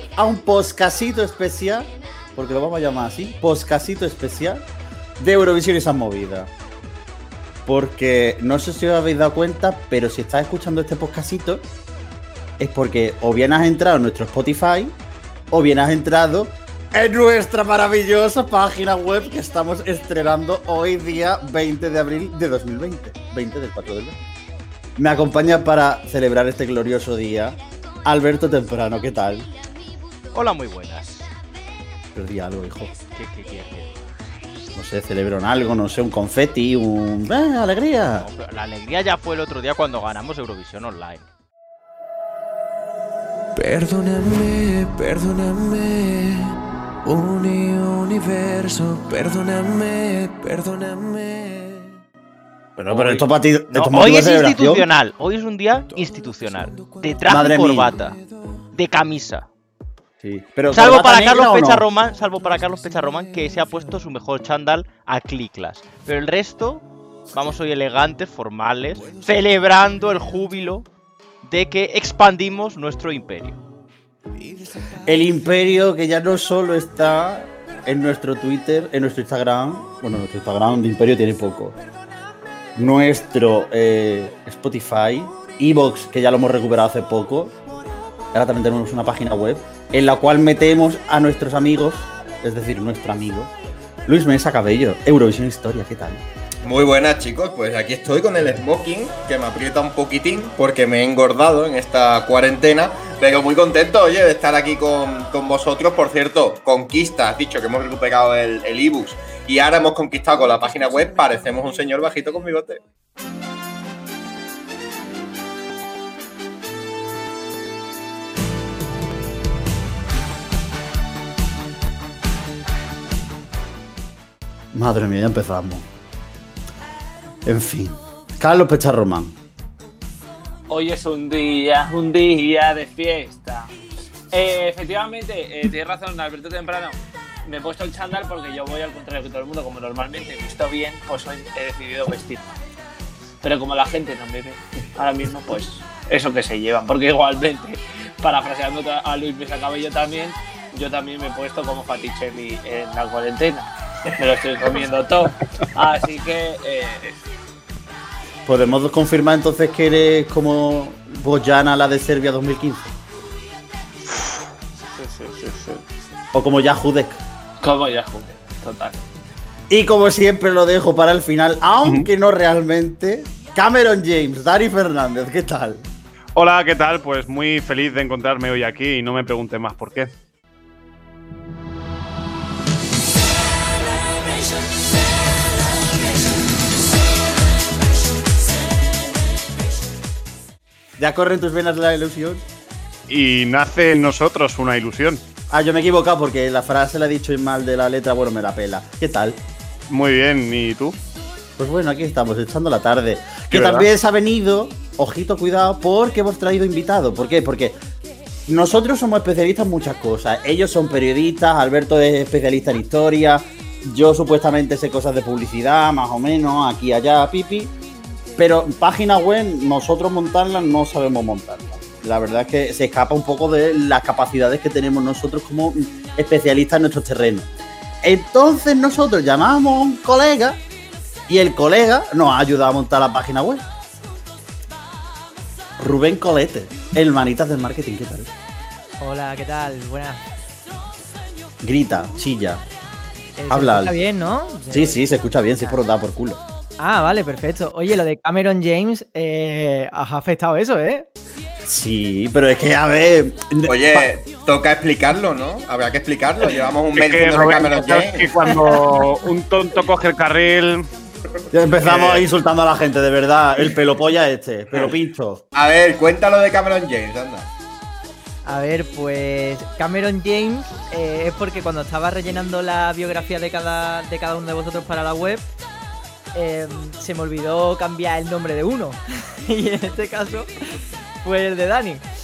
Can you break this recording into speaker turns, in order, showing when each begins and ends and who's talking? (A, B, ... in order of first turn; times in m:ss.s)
0:00.2-0:04.7 A
0:05.2-0:06.5 A
0:07.7-0:11.6 A
0:12.6-0:15.0 A
0:15.5-0:24.2 A
0:25.0-0:29.5 A
0:30.3-0:31.3 B
0:32.2-0:33.0 A
0:33.1-0:34.0 B
0:34.8-0:38.3 A
0:38.2-0:41.3 B
0:43.6-0:52.0 C
0:52.8-0:54.9 A
0:52.9-0:58.2 B
0:55.9-0:58.6 C
0:57.3-0:58.0 A
0:58.7-0:59.5 B
1:00.2-1:01.8 A
1:00.7-1:10.9 B
1:09.0-1:10.4 C
1:11.4-1:13.6 B
1:14.4-1:15.3 C
1:15.1-1:21.8 A
1:22.8-1:27.6 A
1:28.3-1:33.5 A
1:34.1-1:36.2 A
1:36.6-1:52.8 D
2:04.7-2:05.9 A
2:07.4-2:09.4 A
2:10.7-2:13.7 E
2:14.3-2:22.6 E
2:23.4-2:37.2 E
2:38.5-2:42.9 A
2:45.0-2:45.8 E
2:46.3-2:47.2 A
2:47.6-2:49.0 E
2:49.7-2:55.8 A
2:56.4-3:00.1 F
3:11.0-3:12.4 A
3:13.1-3:15.2 F
3:15.5-3:19.4 A
3:19.9-3:21.0 F
3:21.6-3:27.8 A
3:23.5-3:23.9 F
3:28.5-3:37.7 A
3:38.4-3:47.5 A
3:48.0-3:50.6 A
3:51.3-3:53.6 A
3:55.8-3:58.3 A
3:59.0-4:00.2 G
4:01.6-4:02.6 A
4:03.4-4:05.0 G
4:03.5-4:04.0 A
4:04.7-4:06.4 A
4:06.8-4:11.1 G
4:11.7-4:14.1 A
4:13.7-4:18.7 D
4:16.9-4:20.9 F
4:21.5-4:25.4 A
4:21.8-4:22.2 D
4:25.5-4:27.5 D
4:28.4-4:35.5 G
4:36.3-4:40.5 G
4:41.2-4:42.0 G